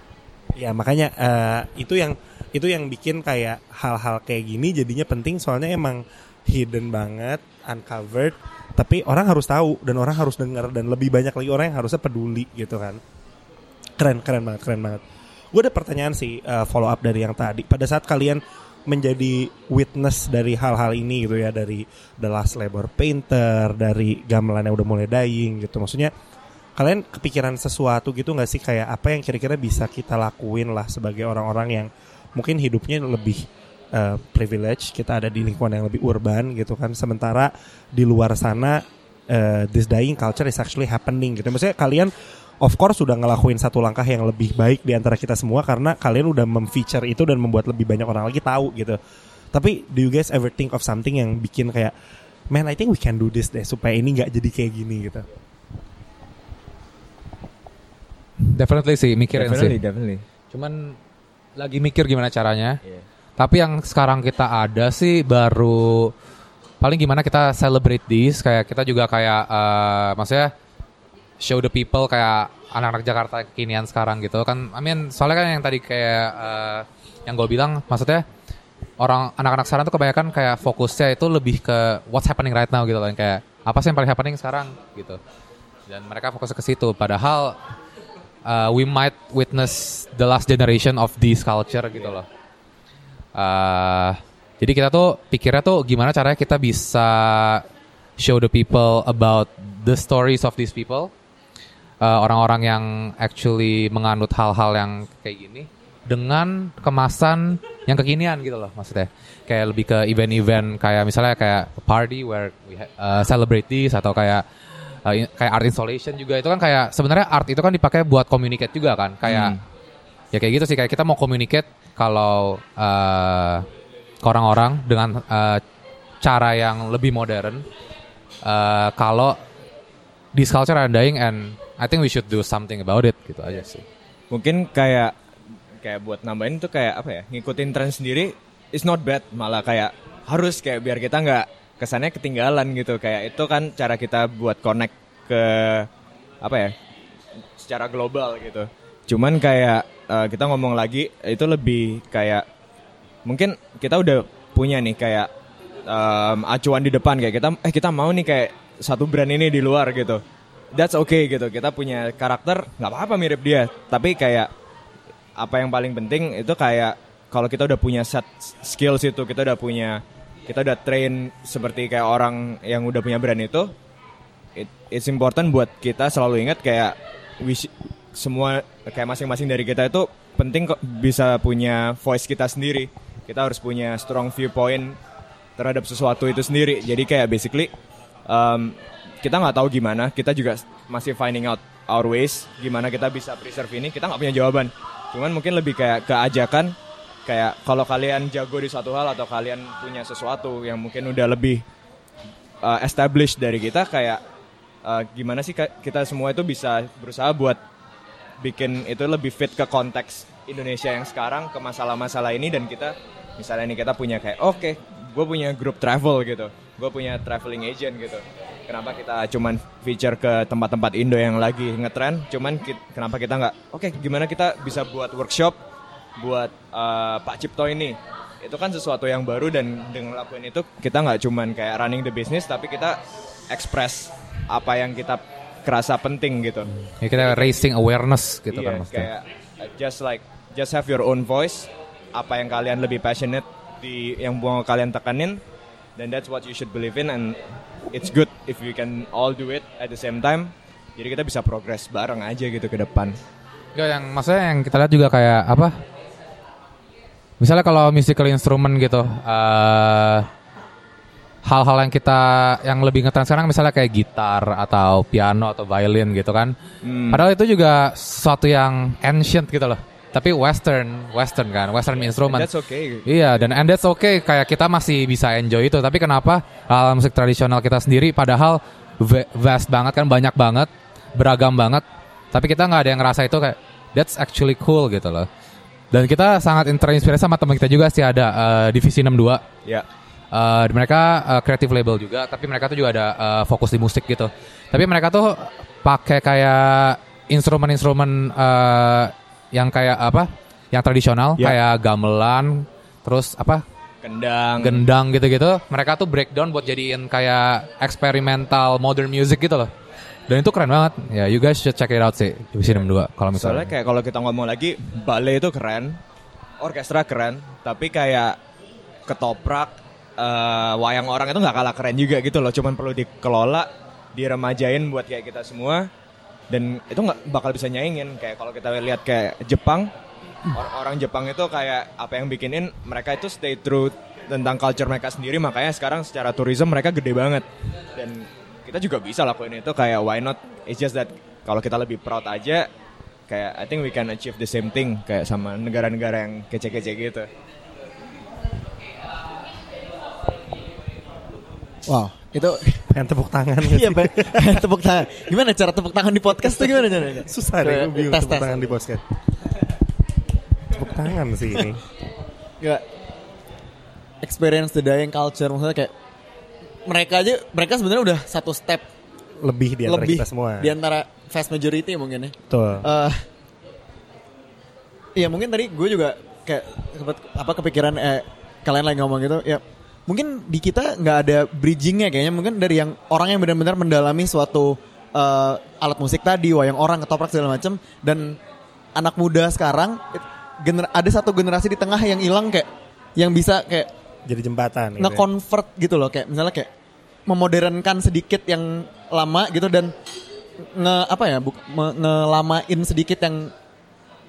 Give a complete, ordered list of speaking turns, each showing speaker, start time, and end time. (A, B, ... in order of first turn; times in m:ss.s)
0:00.5-0:13.0 A
0:14.0-0:15.0 A
0:15.5-0:26.1 A
0:26.8-0:49.0 A
0:49.5-0:51.9 A
0:52.5-0:55.3 A
0:58.4-0:59.8 B
0:59.3-1:00.2 C
1:00.5-1:01.0 B
1:01.6-1:02.8 B
1:03.4-1:06.1 B
1:06.8-1:10.5 B
1:11.4-1:18.2 B
1:19.0-1:25.2 B
1:25.9-1:27.6 B
1:28.4-1:32.3 B
1:33.3-1:37.6 B
1:38.2-1:41.1 B
1:42.0-1:54.4 B
1:55.0-1:59.6 B
1:59.2-1:59.6 C
2:00.3-2:03.6 B
2:04.2-2:05.6 B
2:06.2-2:07.6 B
2:08.4-2:09.4 B
2:10.3-2:13.8 B
2:14.3-2:15.1 C
2:15.8-2:25.9 C
2:26.4-2:26.7 C
2:27.6-2:32.4 C
2:33.2-2:35.3 C
2:35.9-2:40.2 C
2:40.7-2:44.5 C
2:45.4-2:53.7 C
2:54.6-3:05.0 C
3:05.6-3:07.7 C
3:08.3-3:16.7 C
3:17.2-3:21.6 C
3:22.6-3:24.2 C
3:24.8-3:27.6 C
3:28.4-3:45.6 C
3:46.2-3:57.6 C
3:56.8-3:59.1 B
3:58.5-4:05.4 C
4:06.0-4:13.2 C
4:13.7-4:15.7 B
4:17.4-4:20.3 B
4:21.4-4:26.5 B
4:26.8-4:27.2 C
4:27.1-4:32.5 B
4:32.0-4:33.1 C
4:33.0-4:45.3 B
4:45.9-4:49.4 B
4:50.3-5:03.6 B
5:04.0-5:04.8 C
5:04.6-5:09.7 B
5:10.3-5:13.7 B
5:13.3-5:16.0 C
5:16.6-5:18.4 C
5:19.1-5:25.9 C
5:26.5-5:29.9 C
5:30.5-5:42.7 C
5:43.3-5:47.3 C
5:51.9-5:52.8 D
5:52.9-5:54.6 A
5:53.6-5:58.6 D
5:56.4-5:59.0 A
6:00.7-6:01.8 A
6:04.2-6:05.9 D
6:06.8-6:08.9 D
6:09.4-6:10.8 A
6:09.8-6:13.2 D
6:12.5-6:12.8 A
6:15.2-6:28.4 D
6:29.0-6:33.9 D
6:34.2-6:35.2 A
6:35.0-6:36.7 D
6:37.3-6:39.9 D
6:40.7-6:43.5 D